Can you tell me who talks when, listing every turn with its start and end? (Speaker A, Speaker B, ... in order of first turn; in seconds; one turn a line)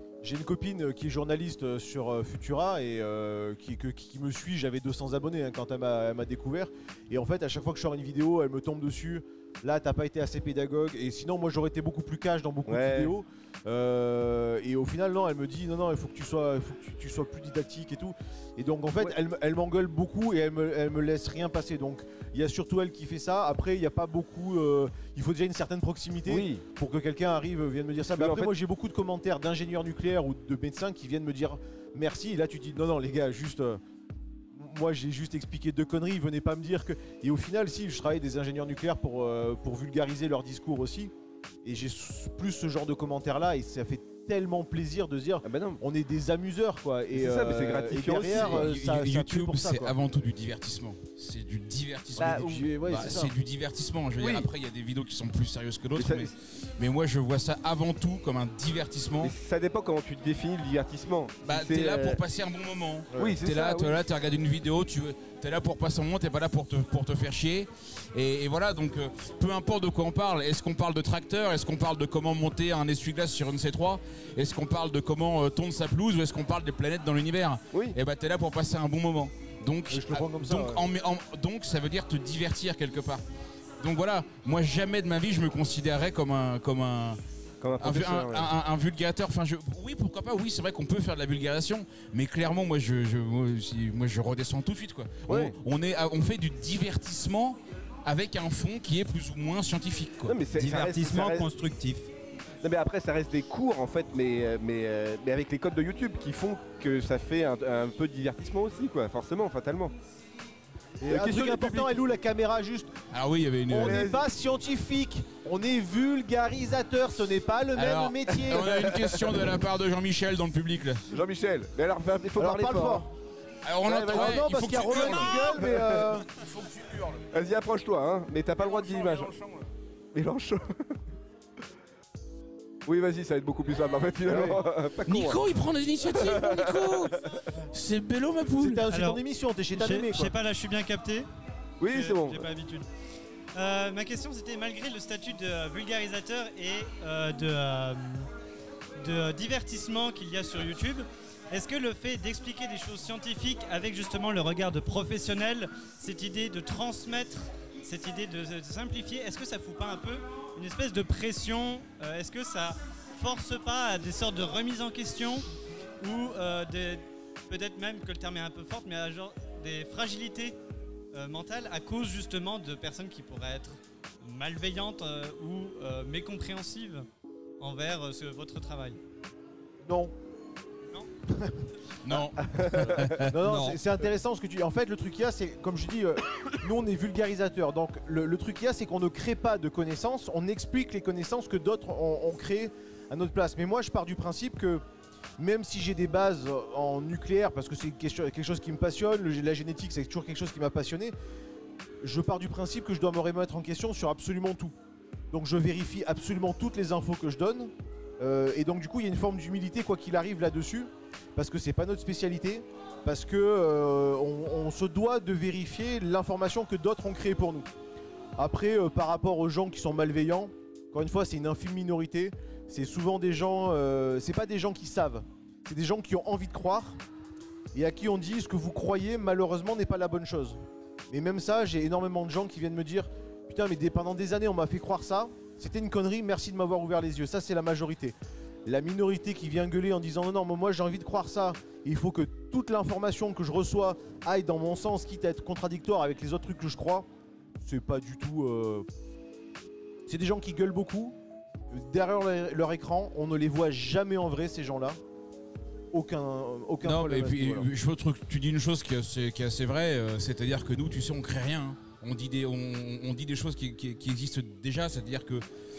Speaker A: 0.2-33.8
Speaker B: 12.7-13.1
Speaker B: 26.2-26.6
Speaker B: 28.1-28.5
Speaker A: 34.5-41.1
Speaker A: 41.6-49.9
Speaker B: 45.4-45.8
Speaker B: 47.1-48.7
Speaker C: 48.1-59.3
Speaker A: 52.1-53.3
Speaker B: 52.2-52.5
Speaker B: 54.2-54.5
Speaker B: 56.0-56.3
Speaker B: 59.2-62.2
Speaker C: 61.4-83.2
Speaker B: 63.1-64.0
Speaker B: 77.7-78.0
Speaker A: 79.9-80.8
Speaker C: 83.8-87.2
Speaker B: 87.6-88.5
Speaker C: 87.8-100.4
Speaker B: 95.3-95.6
Speaker B: 100.2-101.5
Speaker D: 100.5-102.1
Speaker B: 102.6-109.9
Speaker A: 111.0-112.9
Speaker B: 111.0-112.0
Speaker C: 113.1-114.0
Speaker A: 113.7-119.0
Speaker B: 113.7-114.2
Speaker C: 117.7-121.0
Speaker B: 118.5-119.4
Speaker B: 121.1-123.1
Speaker A: 122.3-123.1
Speaker C: 123.6-127.3
Speaker B: 123.8-126.0
Speaker A: 123.9-126.3
Speaker B: 127.3-129.3
Speaker C: 128.6-129.7
Speaker B: 130.1-131.0
Speaker B: 132.8-135.4
Speaker A: 134.3-134.6
Speaker C: 134.3-138.8
Speaker B: 136.0-137.2
Speaker A: 138.6-140.3
Speaker E: 138.9-139.2
Speaker E: 139.7-141.3
Speaker B: 141.8-142.5
Speaker E: 141.8-142.8
Speaker E: 143.5-148.3
Speaker E: 149.0-165.4
Speaker E: 166.0-170.6
Speaker E: 171.1-177.1
Speaker E: 177.6-179.0
Speaker A: 179.8-180.1
Speaker A: 181.3-182.3
Speaker C: 182.0-183.3
Speaker B: 182.4-183.3
Speaker A: 183.2-194.8
Speaker D: 183.4-183.8
Speaker A: 195.4-201.1
Speaker A: 202.0-204.7
Speaker A: 205.3-217.7
Speaker A: 218.4-227.0
Speaker A: 227.7-247.1
Speaker A: 247.6-248.9
Speaker A: 250.1-251.2
Speaker A: 251.7-255.0
Speaker A: 255.9-257.7
Speaker C: 256.8-265.4